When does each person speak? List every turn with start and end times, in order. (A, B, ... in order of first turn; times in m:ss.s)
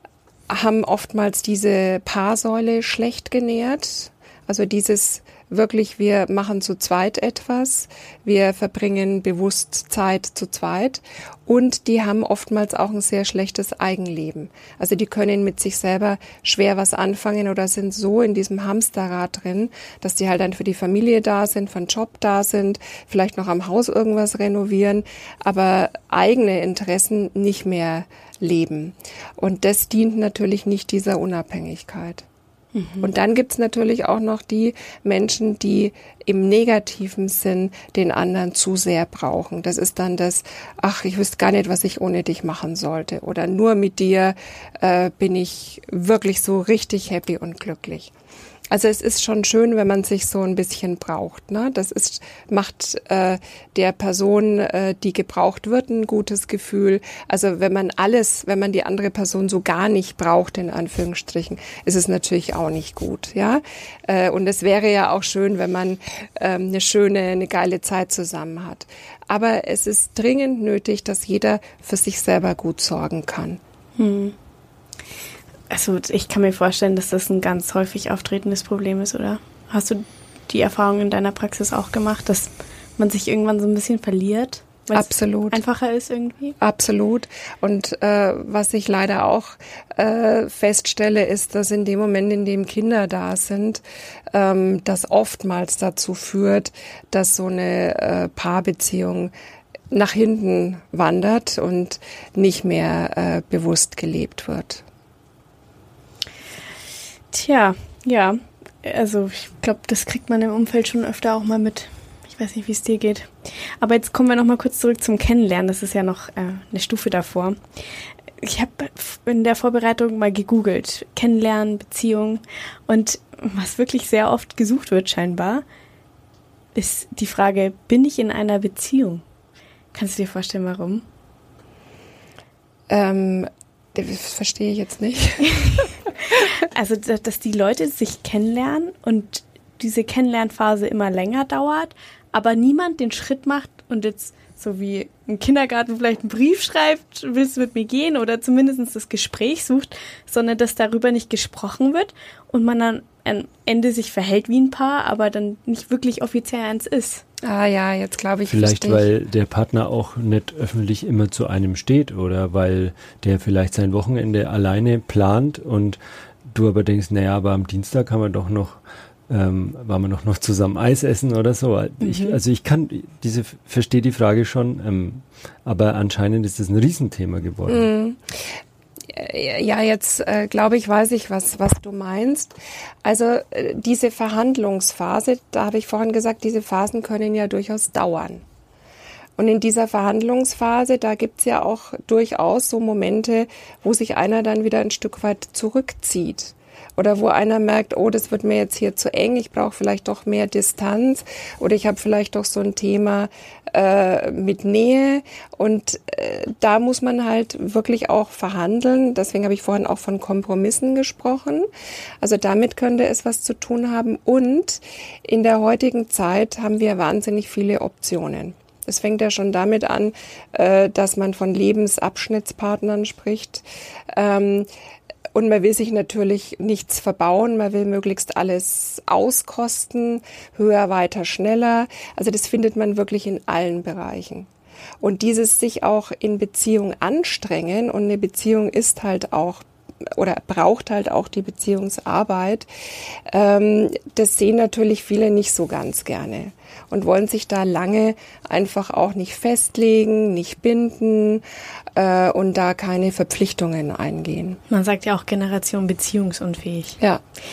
0:00.5-0:32.2 A
0:32.8-0:33.1 B
0:33.0-0:48.1 A
0:48.7-1:13.6 A
1:14.0-1:14.4 B
1:15.7-1:26.6 B
1:24.9-1:25.6 A
1:26.6-1:39.3 A
1:39.9-1:44.8 A
1:47.3-1:57.6 B
1:58.4-2:05.6 B
2:06.8-2:09.2 B
2:09.9-2:11.0 B
2:12.9-2:15.8 A
2:15.5-2:37.2 B
2:37.4-2:39.1 A
2:38.5-2:46.0 C
2:46.5-2:48.8 C
2:49.3-2:57.9 C
2:52.0-2:52.4 B
2:57.7-3:08.4 A
3:09.4-3:31.7 A
3:32.2-3:44.7 A
3:45.3-3:54.5 A
3:55.0-4:02.7 A
4:03.3-4:11.4 A
4:12.0-4:14.6 A
4:14.7-4:17.0 B